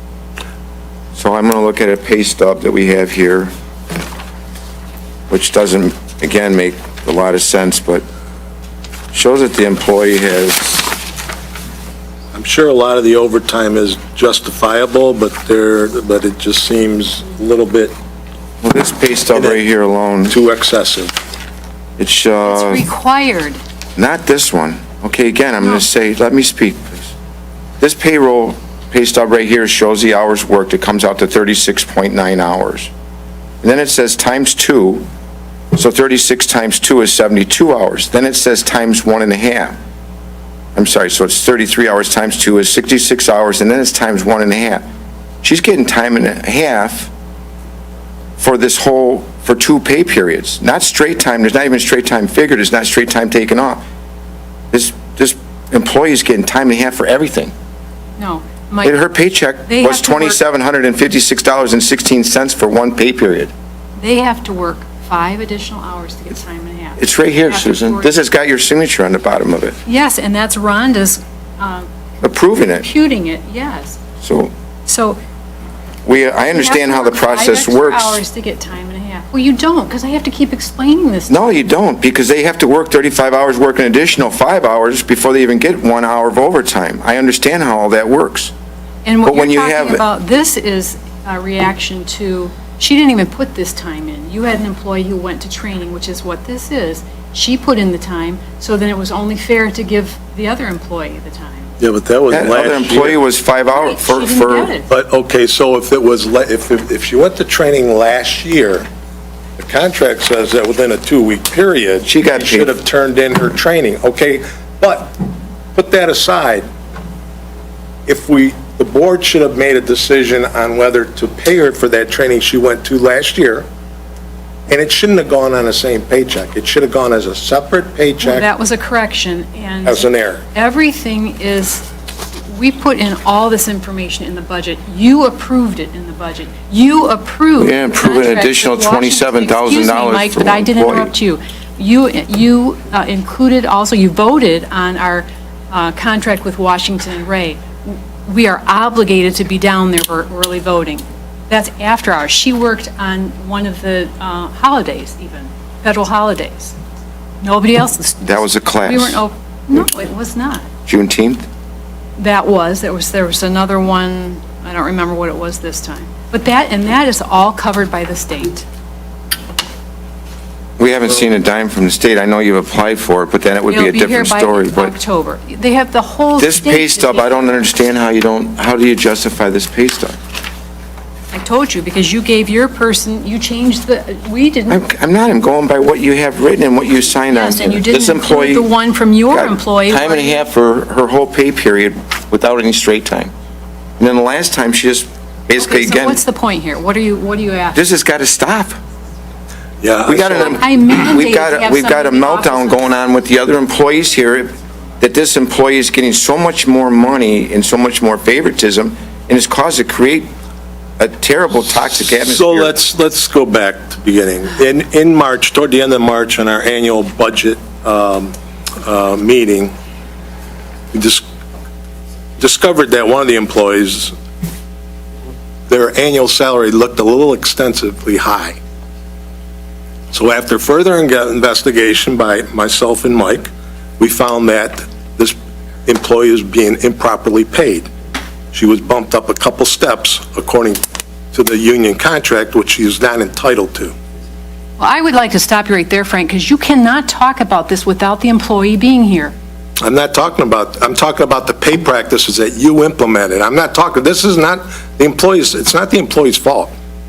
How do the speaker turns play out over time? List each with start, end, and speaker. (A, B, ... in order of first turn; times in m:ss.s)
0:01.2-0:03.5 A
0:05.3-0:08.0 A
0:09.1-0:11.0 A
0:12.3-0:18.0 B
0:18.6-0:20.4 A
0:19.4-0:19.6 B
0:20.3-0:21.1 B
0:22.0-0:22.8 A
0:22.4-0:23.6 C
0:24.0-0:27.1 A
0:27.8-0:32.9 A
0:33.6-0:35.0 A
0:35.7-0:39.8 A
0:40.8-0:44.8 A
0:45.4-0:47.1 A
0:48.4-0:53.8 A
0:54.7-0:57.5 A
0:58.2-0:59.0 C
0:58.8-1:03.5 A
0:59.7-1:00.4 C
1:04.0-1:08.1 C
1:07.0-1:09.8 A
1:09.9-1:11.9 C
1:12.2-1:12.9 A
1:12.5-1:14.0 C
1:14.2-1:14.5 A
1:14.9-1:15.2 C
1:16.0-1:18.2 A
1:16.5-1:21.6 C
1:21.3-1:28.5 A
1:29.0-1:41.7 C
1:29.2-1:30.0 A
1:41.8-1:43.2 B
1:42.3-1:44.7 A
1:43.7-1:44.9 C
1:44.9-1:48.9 B
1:49.6-1:55.2 B
1:52.1-1:52.7 A
1:55.8-1:56.7 B
1:58.1-2:03.7 B
2:04.7-2:08.5 B
2:08.2-2:11.9 C
2:09.8-2:10.4 B
2:12.5-2:36.8 C
2:17.6-2:21.1 A
2:37.4-2:40.6 C
2:38.2-2:39.2 A
2:40.9-2:41.5 A
2:42.2-2:48.7 C
2:50.8-2:54.9 A
2:53.7-2:57.6 C
2:56.4-3:00.2 A
3:01.3-3:04.8 C
3:04.7-3:08.7 A
3:07.3-3:10.4 C
3:09.3-3:13.3 A
3:14.0-3:16.2 A
3:15.6-3:17.8 C
3:17.8-3:18.8 A
3:19.8-3:20.6 B
3:20.1-3:30.3 A
3:20.3-3:22.9 C
3:31.0-3:32.8 A
3:32.0-3:39.8 B
3:40.9-3:41.2 B
3:42.4-3:44.1 B
3:45.7-3:48.6 B
3:50.1-3:57.9 B
3:58.5-4:04.0 B
4:04.8-4:09.4 C
4:09.8-4:16.7 B